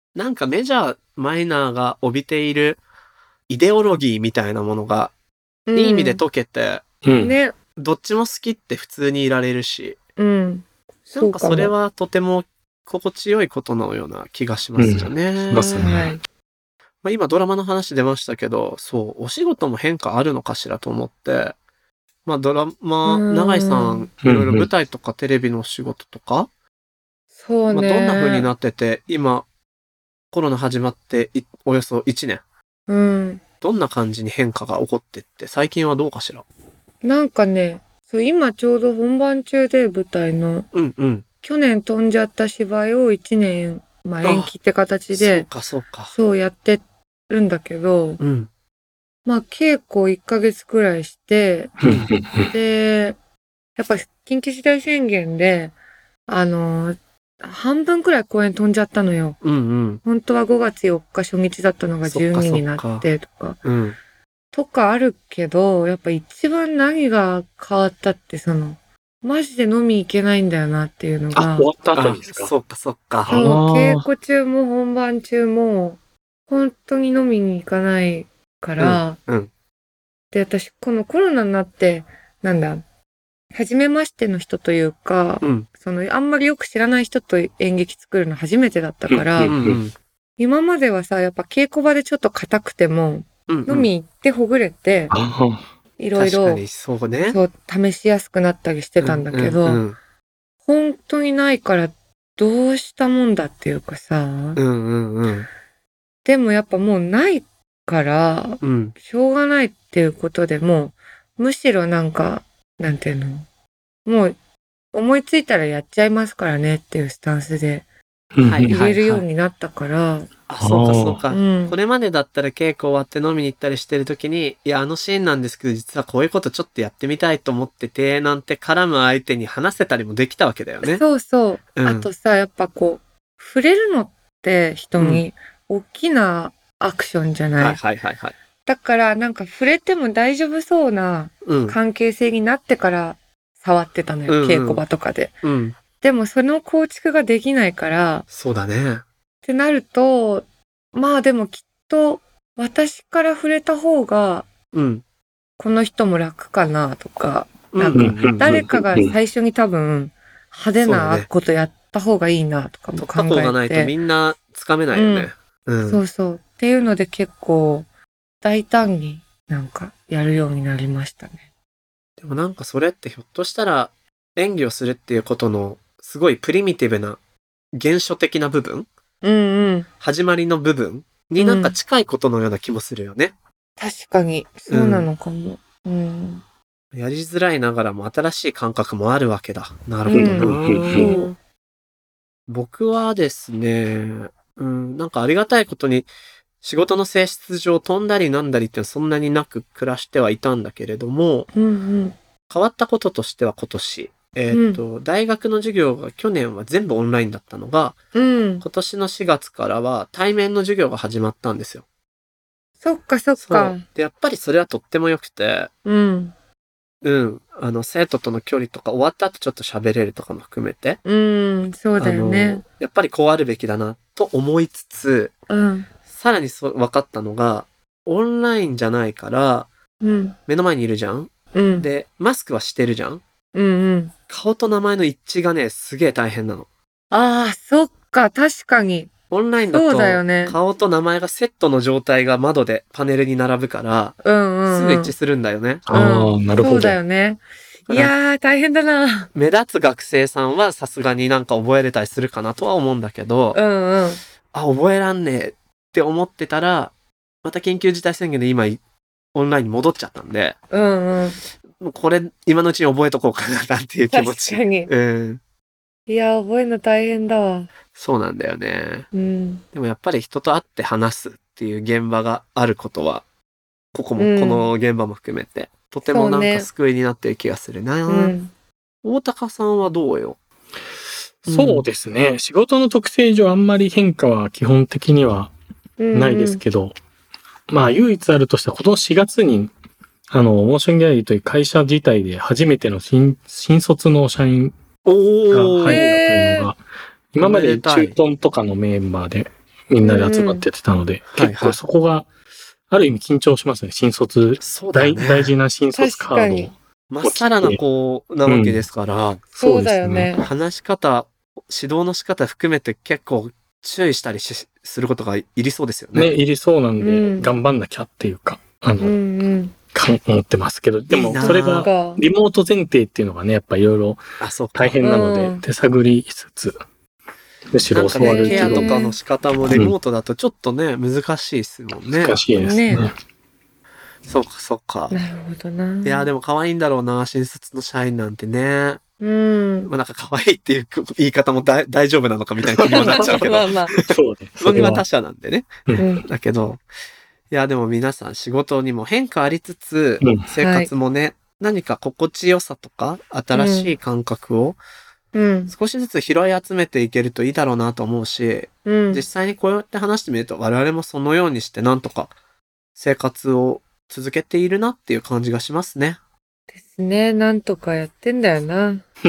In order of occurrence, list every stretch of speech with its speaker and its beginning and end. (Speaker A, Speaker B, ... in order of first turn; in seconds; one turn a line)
Speaker A: 0.1-2.8
Speaker A: 3.5-5.1
Speaker B: 5.7-6.2
Speaker A: 5.8-6.8
Speaker C: 7.0-7.4
Speaker B: 7.2-7.5
Speaker A: 7.8-10.0
Speaker B: 10.2-11.7
Speaker A: 11.2-15.9
Speaker C: 14.8-16.1
Speaker B: 15.6-16.2
Speaker A: 17.0-21.6
Speaker A: 22.3-26.5
Speaker B: 23.1-24.1
Speaker C: 24.2-24.7
Speaker B: 27.4-28.5
Speaker A: 27.7-29.5
Speaker A: 30.3-32.4
Speaker B: 32.9-33.4
Speaker A: 33.6-36.5
Speaker B: 37.0-40.7
Speaker A: 40.7-41.2
Speaker B: 41.4-45.5
Speaker A: 44.2-44.5
Speaker A: 45.1-46.1
Speaker B: 46.1-48.2
Speaker A: 48.2-48.5
Speaker B: 49.3-51.7
Speaker C: 51.8-52.5
Speaker A: 51.8-52.1
Speaker B: 52.5-53.2
Speaker B: 53.8-55.7
Speaker B: 56.3-59.4
Speaker A: 59.4-60.0
Speaker B: 60.0-63.6
Speaker A: 62.0-63.1
Speaker A: 63.6-64.0
Speaker B: 64.5-71.7
Speaker C: 71.3-72.5
Speaker A: 72.0-73.5
Speaker C: 73.2-74.1
Speaker B: 73.3-79.2
Speaker A: 78.8-79.5
Speaker B: 80.3-82.8
Speaker B: 83.5-89.5
Speaker A: 85.4-85.7
Speaker C: 89.1-89.8
Speaker A: 89.4-90.0
Speaker B: 90.4-95.1
Speaker A: 93.5-93.9
Speaker C: 95.1-95.7
Speaker B: 96.0-96.6
Speaker A: 96.2-97.4
Speaker B: 97.3-99.8
Speaker A: 99.0-100.0
Speaker B: 100.7-104.6
Speaker A: 104.6-105.5
Speaker B: 106.2-113.5
Speaker A: 108.6-109.0
Speaker B: 114.1-114.4
Speaker B: 114.9-117.8
Speaker C: 118.3-118.8
Speaker A: 118.5-119.2
Speaker B: 118.6-120.3
Speaker A: 120.5-131.0
Speaker C: 120.6-121.2
Speaker B: 121.3-121.8
Speaker B: 130.8-137.8
Speaker A: 131.8-132.1
Speaker A: 135.0-135.2
Speaker A: 137.6-138.3
Speaker B: 138.7-145.4
Speaker A: 141.4-141.8
Speaker A: 144.3-144.8
Speaker A: 145.4-145.8
Speaker B: 146.0-148.3
Speaker A: 148.3-149.0
Speaker B: 149.5-154.5
Speaker A: 154.7-155.0
Speaker B: 155.6-163.9
Speaker A: 157.7-158.8
Speaker C: 157.9-159.1
Speaker A: 160.8-161.3
Speaker A: 163.0-166.0
Speaker B: 164.9-165.3
Speaker B: 165.8-167.9
Speaker B: 168.4-171.4
Speaker A: 172.2-177.2
Speaker A: 177.7-178.9
Speaker B: 179.2-179.9
Speaker A: 180.0-183.3
Speaker B: 181.4-181.8
Speaker B: 183.8-186.4
Speaker A: 184.7-185.1
Speaker A: 186.9-191.3
Speaker B: 190.1-191.4
Speaker C: 190.1-191.1
Speaker A: 192.5-196.1
Speaker A: 196.6-201.5
Speaker B: 201.5-202.2
Speaker A: 202.5-208.0
Speaker B: 204.5-204.8
Speaker B: 208.1-208.7
Speaker A: 208.6-211.8
Speaker B: 212.8-213.8
Speaker A: 213.4-215.7
Speaker B: 215.8-216.3
Speaker A: 217.0-221.0
Speaker B: 221.0-222.6
Speaker A: 222.0-225.3
Speaker B: 225.5-225.9
Speaker A: 226.1-229.7
Speaker B: 230.0-230.4
Speaker A: 230.5-233.2
Speaker B: 231.5-231.9
Speaker B: 233.5-234.1
Speaker A: 234.3-236.7
Speaker B: 237.1-239.1
Speaker A: 239.3-245.9
Speaker B: 239.7-240.6
Speaker B: 244.2-245.1
Speaker C: 245.9-247.0
Speaker B: 245.9-249.3
Speaker A: 247.9-248.1
Speaker A: 249.3-253.6
Speaker B: 253.5-254.2
Speaker A: 254.5-256.9
Speaker A: 257.4-258.8
Speaker A: 259.3-260.6
Speaker B: 260.7-261.4
Speaker A: 261.8-265.4
Speaker B: 264.1-264.9
Speaker B: 266.1-267.7
Speaker A: 267.9-269.1
Speaker B: 269.1-269.6
Speaker A: 269.7-273.2
Speaker A: 273.9-278.4
Speaker B: 274.2-274.7
Speaker B: 276.1-276.7
Speaker B: 278.1-278.5
Speaker A: 279.0-280.4
Speaker C: 281.4-285.5
Speaker A: 281.5-281.9
Speaker B: 286.0-286.6
Speaker C: 286.1-286.9
Speaker C: 287.7-289.7
Speaker C: 290.3-294.8
Speaker A: 295.1-296.0
Speaker C: 295.5-296.8
Speaker B: 295.9-296.7
Speaker C: 297.3-302.3
Speaker A: 297.4-298.2
Speaker B: 300.0-300.7
Speaker A: 301.3-301.8
Speaker C: 302.9-307.8
Speaker A: 304.6-305.5
Speaker B: 305.9-306.7
Speaker A: 307.1-309.4
Speaker C: 308.4-308.9
Speaker B: 309.6-310.5
Speaker C: 309.6-310.3
Speaker A: 310.4-316.3
Speaker C: 316.1-319.2
Speaker B: 317.0-317.5
Speaker B: 319.0-319.7
Speaker C: 319.9-324.2
Speaker A: 321.1-321.9
Speaker B: 321.3-322.2
Speaker A: 324.4-325.0
Speaker C: 324.7-326.8
Speaker B: 325.0-325.6
Speaker C: 327.7-329.0
Speaker A: 327.9-332.4
Speaker B: 328.2-329.1
Speaker C: 332.1-333.1
Speaker B: 332.6-333.1
Speaker A: 334.3-335.1
Speaker B: 335.1-336.3
Speaker A: 336.0-339.0
Speaker B: 339.2-339.9
Speaker A: 339.9-346.8
Speaker C: 342.8-345.0
Speaker B: 342.9-344.0
Speaker B: 346.0-346.3
Speaker A: 347.5-354.8
Speaker B: 350.6-350.9
Speaker B: 353.5-353.9
Speaker B: 355.3-355.7
Speaker A: 355.7-362.3
Speaker B: 358.9-359.2
Speaker A: 363.0-366.2
Speaker B: 366.7-369.0